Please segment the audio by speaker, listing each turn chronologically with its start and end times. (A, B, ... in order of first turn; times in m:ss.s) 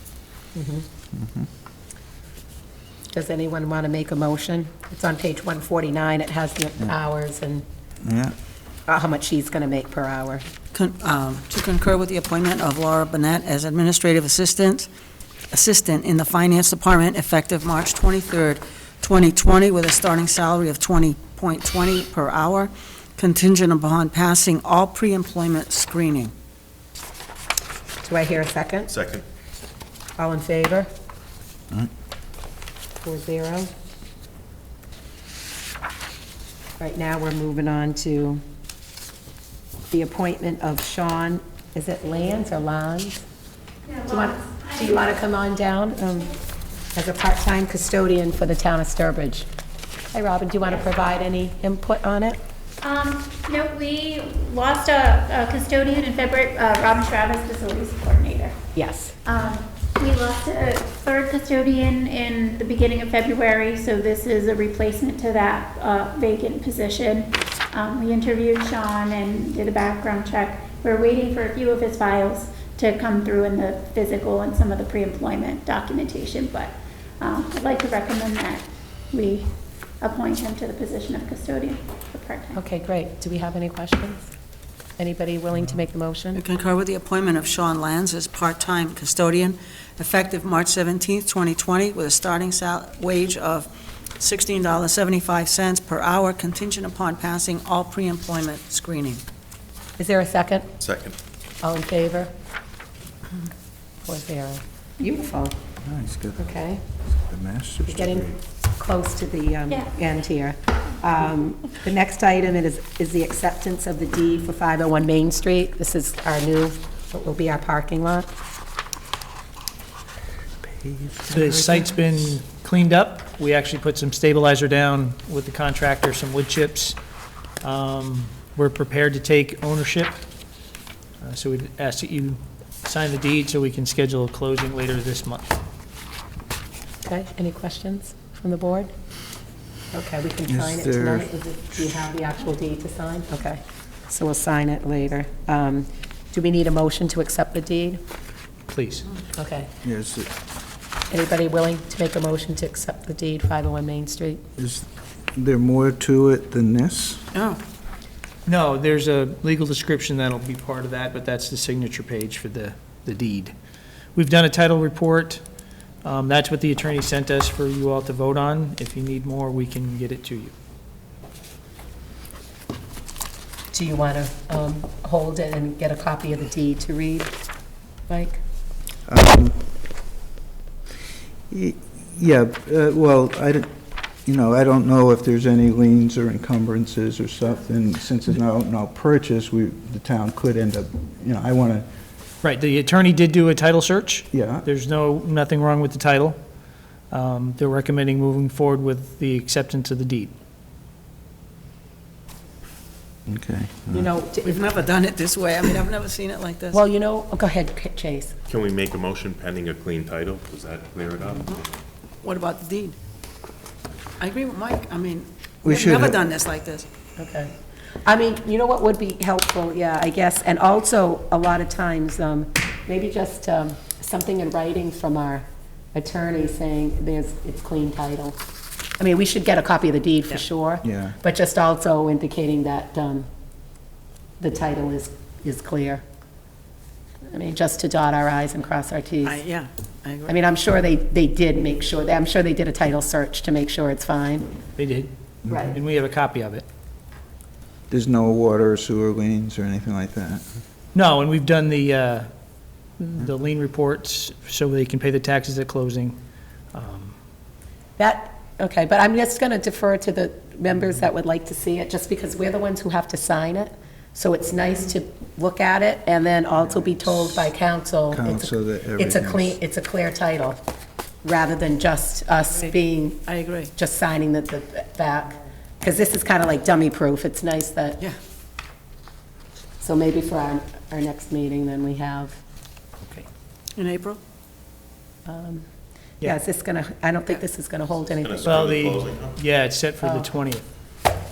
0:00.5-0:00.8 A
0:01.1-0:01.5 B
0:03.1-0:07.6 A
0:08.0-0:08.3 B
0:08.9-0:10.5 A
0:10.7-0:14.9 C
0:15.5-0:26.3 C
0:28.0-0:28.9 A
0:28.9-0:29.2 D
0:30.2-0:30.9 A
0:33.0-0:33.7 A
0:36.8-0:38.4 A
0:39.9-0:43.2 A
0:43.9-0:45.2 E
0:44.1-0:46.3 A
0:46.9-0:49.4 A
0:50.1-0:52.4 A
0:52.8-0:58.6 E
0:58.7-0:59.1 A
0:59.2-1:22.6 E
1:22.5-1:24.3 A
1:25.0-1:26.4 A
1:26.3-1:33.7 C
1:34.2-1:39.2 C
1:40.0-1:40.7 A
1:40.8-1:41.2 D
1:41.6-1:42.3 A
1:44.0-1:45.5 A
1:45.8-1:46.5 B
1:46.4-1:46.8 A
1:47.2-1:48.4 B
1:47.9-1:58.3 A
2:00.6-2:01.8 B
2:01.3-2:07.0 F
2:07.6-2:10.2 F
2:11.2-2:15.6 F
2:17.0-2:18.9 A
2:19.9-2:28.0 A
2:20.5-2:21.3 B
2:28.7-2:29.1 F
2:29.4-2:29.7 A
2:29.8-2:30.3 B
2:31.1-2:34.4 A
2:34.6-2:37.3 B
2:37.3-2:37.6 C
2:38.4-2:43.5 F
2:44.2-2:45.4 F
2:46.0-2:50.5 F
2:53.7-2:57.3 A
2:58.1-2:58.4 A
2:59.1-2:59.6 B
3:01.5-3:03.7 B
3:04.2-3:11.8 B
3:12.4-3:16.4 F
3:14.3-3:14.6 B
3:17.1-3:20.3 F
3:23.3-3:24.1 B
3:23.9-3:24.7 A
3:24.4-3:26.8 C
3:26.7-3:28.4 A
3:28.5-3:31.7 D
3:32.2-3:32.9 C
3:34.2-3:36.8 C
3:35.6-3:36.2 B
3:37.2-3:37.5 A
3:38.0-3:48.4 A
3:49.0-3:53.3 A
3:50.8-3:51.1 B
3:54.4-3:56.0 A
3:57.3-3:59.4 A
3:59.2-4:00.4 C
4:00.3-4:04.5 A
4:04.8-4:06.6 F
4:05.5-4:05.8 A
4:07.9-4:10.4 B
4:10.9-4:12.3 F
4:13.0-4:16.2 F
4:16.7-4:17.1 F
4:18.0-4:30.6 A
4:28.1-4:29.6 B
4:31.2-4:33.2 A
4:33.2-4:33.7 C
4:33.7-4:38.0 A
4:39.8-4:42.4 A
4:43.8-4:44.2 C
4:45.2-4:45.6 A
4:46.2-4:48.6 A
4:47.9-4:49.4 D
4:48.4-4:50.6 F
4:50.0-4:50.3 A